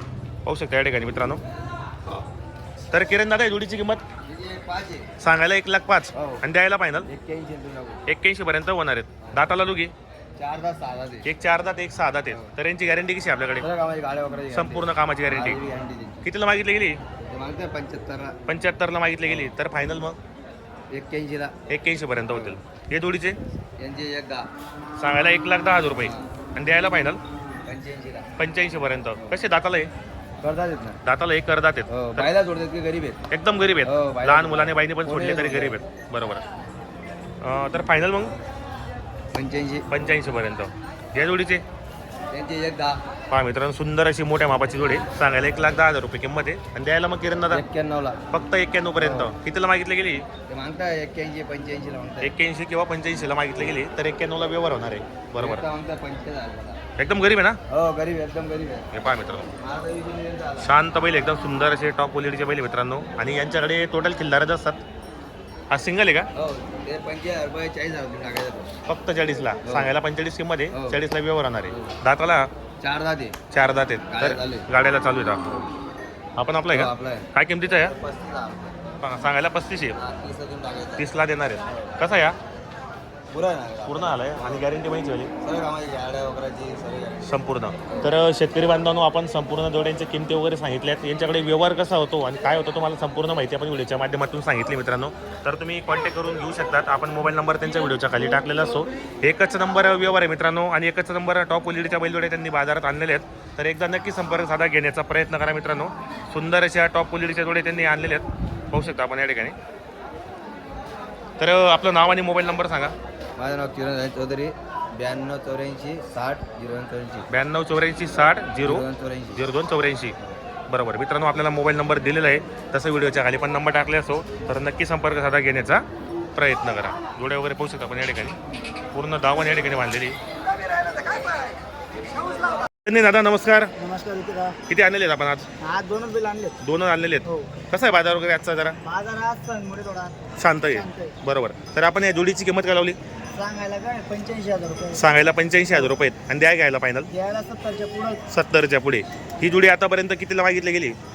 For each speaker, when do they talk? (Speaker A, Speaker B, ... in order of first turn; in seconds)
Speaker A: 0.5-1.4, 2.9-4.0, 5.2-7.1, 8.1-9.9, 11.2-13.7, 14.5-15.6, 16.2-17.0, 18.5-20.2, 21.7-23.4, 25.0-27.2, 28.4-29.9, 31.0-32.3, 33.3-36.4, 37.4-38.4, 39.9-41.6, 43.3-47.6, 48.3-50.3, 52.2-55.6, 57.0-57.6, 58.9-59.5, 60.6-64.8, 65.7-66.3, 68.9-72.5, 73.5-75.6, 76.4-77.9, 79.0-80.0, 81.0-82.4, 83.9-85.3, 87.2-109.6, 111.4-113.0, 117.3-118.9, 119.4-120.2, 120.7-125.8, 126.4-128.4, 128.9-130.2, 132.8-133.7, 134.7-135.5, 136.6-138.8, 140.4-143.0, 144.9-147.1, 148.3-151.0
Speaker B: 4.2-5.1, 6.1-6.4, 7.0-8.0, 10.4-11.3, 13.6-16.3, 17.3-18.4, 19.3-19.6, 20.9-21.6, 22.3-22.6, 23.8-24.5, 25.9-26.3, 27.6-28.3, 30.4-31.0, 31.9-33.2, 33.8-35.8, 39.3-39.9, 42.3-43.0, 47.5-48.2, 49.0-49.3, 50.5-52.4, 55.4-56.8, 57.7-58.9, 59.6-60.7, 66.3-68.7, 69.7-70.0, 70.7-71.0, 71.7-72.0, 72.8-73.4, 74.1-74.7, 76.7-78.8, 79.9-81.1, 83.3-84.7, 85.4-88.1, 113.4-117.3, 118.7-119.4
Speaker C: 130.9-131.3, 133.8-134.6, 135.6-136.6, 137.3-137.5, 138.8-140.2, 140.7-141.2, 143.3-145.1, 147.1-148.2